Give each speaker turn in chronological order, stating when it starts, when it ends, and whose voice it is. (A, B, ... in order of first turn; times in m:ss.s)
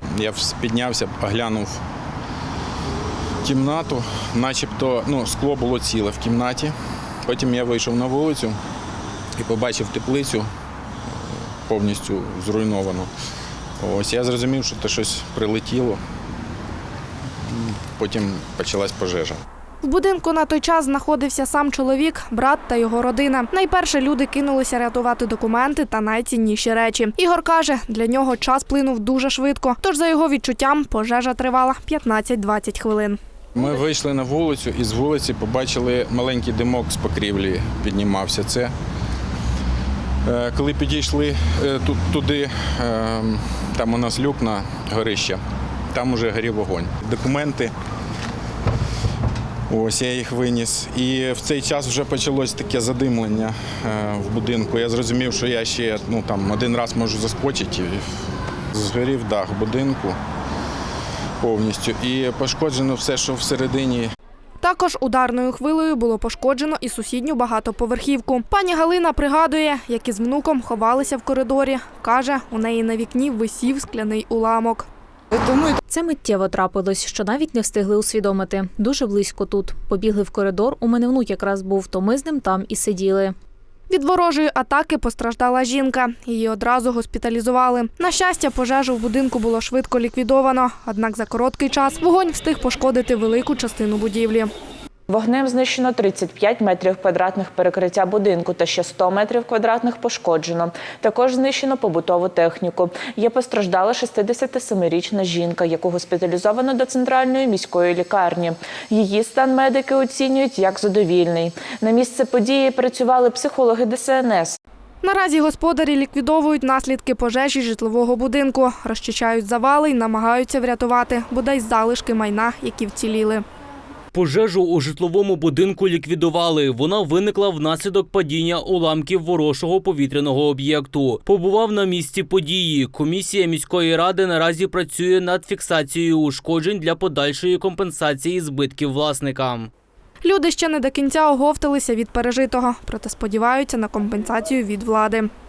0:00.1-0:01.8 A
0:03.4-0:06.7 A
0:07.2-0:08.6 A
0:09.4-0:10.5 A
0:11.6-0:13.1 A
0:13.8-0:16.0 A
0:17.5-0:19.4 A
0:19.8-0:33.2 B
0:33.6-0:38.7 A
0:40.2-0:45.4 A
0:45.9-0:47.7 A
0:49.7-0:58.2 A
0:58.7-1:00.2 A
1:01.4-1:04.1 A
1:04.6-1:14.9 B
1:15.6-1:23.3 C
1:23.9-1:34.5 B
1:35.1-1:54.6 D
1:55.0-2:03.4 B
2:04.1-2:19.7 E
2:20.2-2:25.3 B